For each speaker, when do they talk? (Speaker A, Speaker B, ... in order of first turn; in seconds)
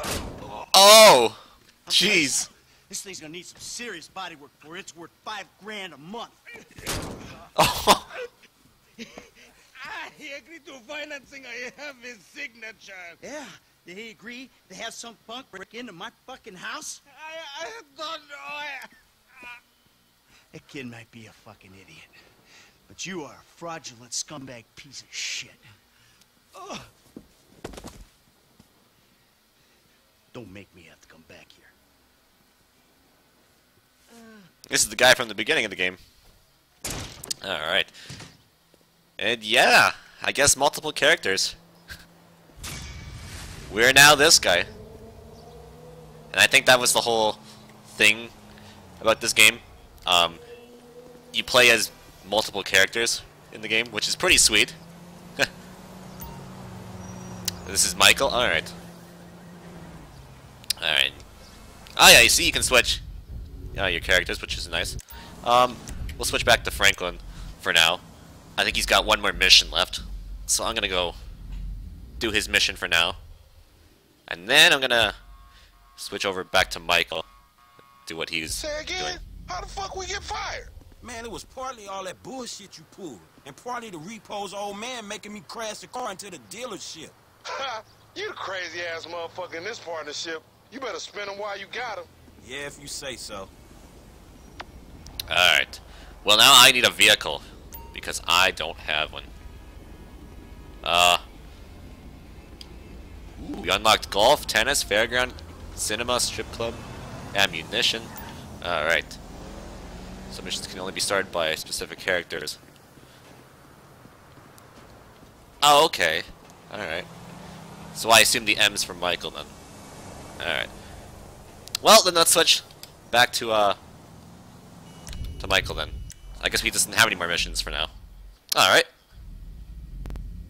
Speaker A: 0.7-2.5, 7.6-8.1, 34.7-36.0, 37.4-37.9, 39.2-41.6, 43.7-44.7, 46.3-48.3, 49.0-50.4, 51.3-54.8, 57.6-58.7, 60.8-61.2, 62.0-63.0, 63.7-68.0, 68.6-71.2, 72.2-73.2, 74.3-75.2, 76.0-77.3, 78.1-79.2, 95.3-99.3, 100.8-101.2, 103.4-109.2, 110.3-112.6, 115.6-117.1, 117.9-119.5, 120.4-120.7, 121.8-123.8, 125.4-127.9, 128.5-128.9
Speaker B: 1.9-6.4, 13.2-17.0, 20.5-22.1, 22.9-25.6, 30.3-31.7
Speaker C: 9.8-13.2, 17.1-18.9
Speaker D: 78.5-80.7, 87.5-92.1
Speaker E: 81.0-87.2, 92.4-93.5